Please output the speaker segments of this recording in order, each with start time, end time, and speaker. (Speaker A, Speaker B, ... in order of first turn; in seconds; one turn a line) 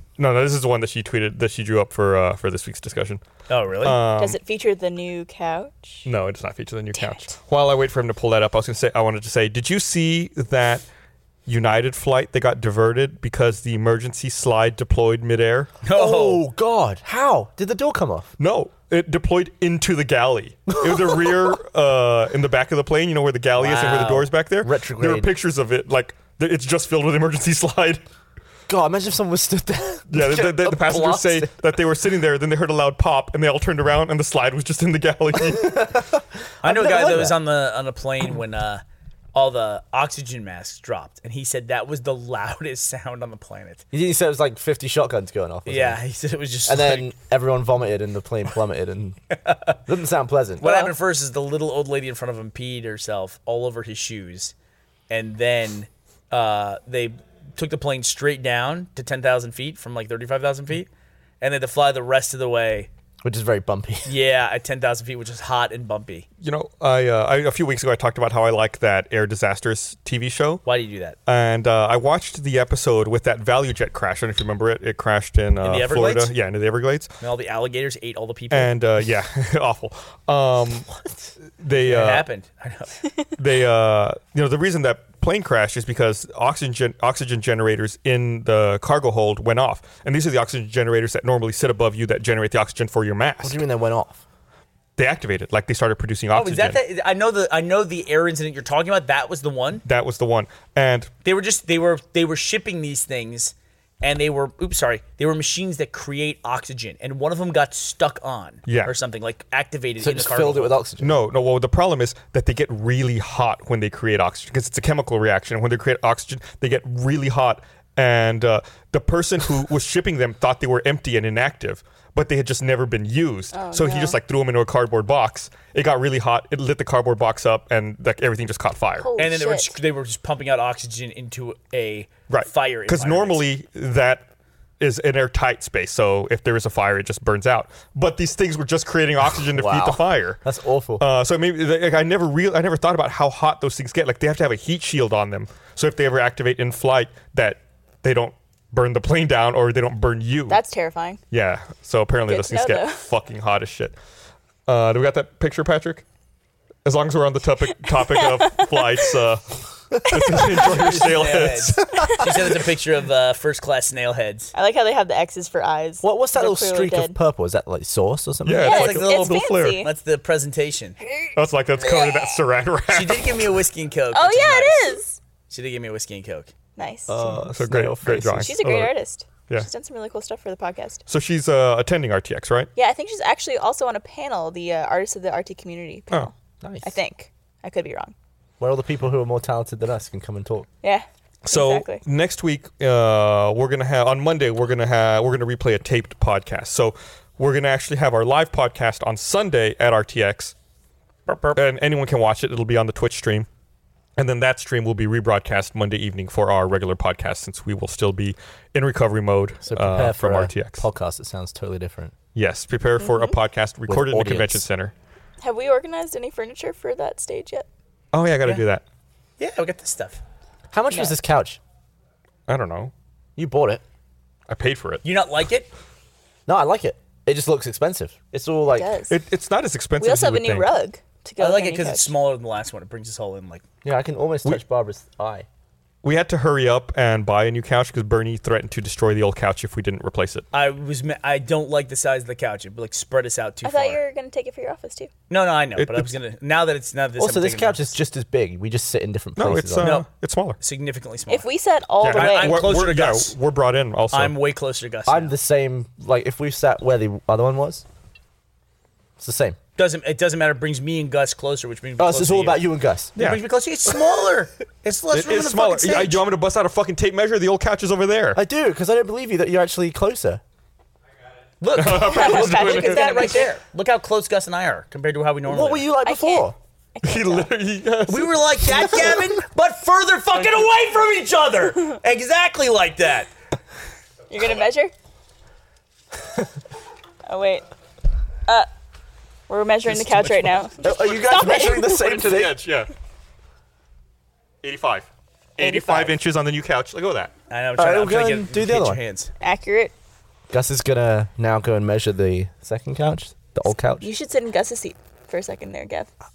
Speaker A: 0.2-3.2
Speaker B: 3.5-4.0
Speaker A: 3.8-4.4
Speaker C: 4.2-6.1
Speaker A: 6.0-10.9
Speaker C: 7.0-7.4
Speaker A: 11.5-15.7
Speaker B: 15.8-16.4
Speaker D: 15.9-18.3
Speaker A: 18.4-28.0
Speaker D: 20.8-21.6
Speaker B: 23.6-24.2
Speaker D: 23.6-25.3
Speaker D: 28.7-31.5
Speaker A: 30.1-35.9
Speaker D: 35.4-37.4
Speaker B: 36.6-38.8
Speaker B: 39.3-43.8
Speaker D: 43.9-46.0
Speaker B: 45.7-47.1
Speaker D: 46.7-49.2
Speaker B: 49.5-49.8
Speaker D: 49.9-50.7
Speaker B: 50.6-54.5
Speaker C: 50.6-50.9
Speaker B: 55.1-60.9
Speaker B: 61.4-62.9
Speaker D: 63.2-64.1
Speaker B: 64.1-66.3
Speaker A: 66.4-70.6
Speaker B: 70.7-71.2
Speaker A: 71.3-77.1
Speaker B: 75.6-76.3
Speaker B: 77.2-78.7
Speaker A: 78.5-80.9
Speaker A: 81.5-82.2
Speaker B: 81.8-83.1
Speaker A: 83.4-93.6
Speaker D: 93.4-94.2
Speaker A: 95.0-96.8
Speaker B: 96.3-99.8
Speaker A: 99.8-101.1
Speaker B: 101.2-110.8
Speaker A: 108.7-108.9
Speaker D: 110.0-111.2
Speaker A: 111.0-129.1
Speaker C: 123.5-124.2
Speaker C: 129.0-129.8
Speaker B: 129.2-133.4
Speaker A: 132.3-134.2
Speaker A: 134.8-140.4
Speaker D: 139.5-141.1
Speaker A: 141.0-150.6
Speaker C: 150.5-151.2
Speaker A: 151.3-153.9
Speaker C: 152.3-153.0
Speaker A: 154.7-156.1
Speaker A: 156.8-162.2
Speaker C: 157.9-159.1
Speaker C: 160.1-160.7
Speaker B: 160.6-164.5
Speaker D: 162.1-162.3
Speaker C: 164.5-167.2
Speaker D: 166.0-168.8
Speaker A: 168.4-169.8
Speaker C: 168.6-169.9
Speaker B: 168.6-171.0
Speaker C: 171.0-172.4
Speaker A: 171.3-173.5
Speaker B: 172.9-176.5
Speaker C: 174.1-175.2
Speaker C: 176.8-177.2
Speaker D: 177.1-178.5
Speaker A: 177.2-178.9
Speaker C: 178.3-181.0
Speaker A: 181.1-182.7
Speaker C: 182.8-188.2
Speaker D: 186.6-186.9
Speaker D: 188.6-190.7
Speaker C: 190.8-192.0
Speaker A: 191.4-200.5
Speaker B: 201.3-201.6
Speaker A: 201.6-203.5
Speaker A: 204.2-210.8
Speaker D: 209.7-212.1
Speaker A: 212.3-214.9
Speaker C: 213.0-213.3
Speaker D: 213.9-214.7
Speaker C: 215.4-217.7
Speaker A: 218.1-218.8
Speaker B: 219.4-220.2
Speaker D: 220.7-221.6
Speaker A: 222.5-222.9
Speaker D: 223.4-223.8
Speaker A: 224.5-225.0
Speaker B: 225.0-225.7
Speaker D: 226.5-228.9
Speaker C: 228.7-229.2
Speaker A: 229.1-230.7
Speaker C: 230.0-232.1
Speaker B: 231.4-233.7
Speaker D: 233.8-235.5
Speaker A: 236.0-240.4
Speaker B: 240.5-244.0
Speaker C: 243.6-245.1
Speaker B: 245.3-247.9
Speaker A: 245.8-246.1
Speaker D: 247.2-250.0
Speaker A: 249.4-250.6
Speaker B: 249.8-250.1
Speaker B: 250.6-251.5
Speaker C: 251.3-252.8
Speaker A: 252.0-254.3
Speaker B: 252.2-253.3
Speaker B: 254.1-255.3
Speaker D: 255.1-257.8
Speaker D: 259.2-259.6
Speaker B: 259.8-262.6
Speaker D: 262.0-263.2
Speaker B: 263.2-266.2
Speaker A: 263.2-263.4
Speaker A: 265.1-268.4
Speaker D: 268.4-270.4
Speaker B: 271.6-275.9
Speaker A: 271.8-273.4
Speaker C: 272.0-273.5
Speaker D: 275.5-276.6
Speaker C: 276.0-277.5
Speaker A: 277.0-278.9
Speaker B: 278.1-283.3
Speaker C: 284.3-284.9
Speaker C: 287.3-287.7
Speaker C: 289.5-292.2
Speaker A: 289.9-292.9
Speaker D: 290.8-292.6
Speaker A: 294.6-297.3
Speaker C: 295.6-296.1
Speaker B: 297.5-299.3
Speaker D: 297.8-299.0
Speaker C: 299.4-299.9
Speaker D: 300.5-304.1
Speaker C: 304.0-306.1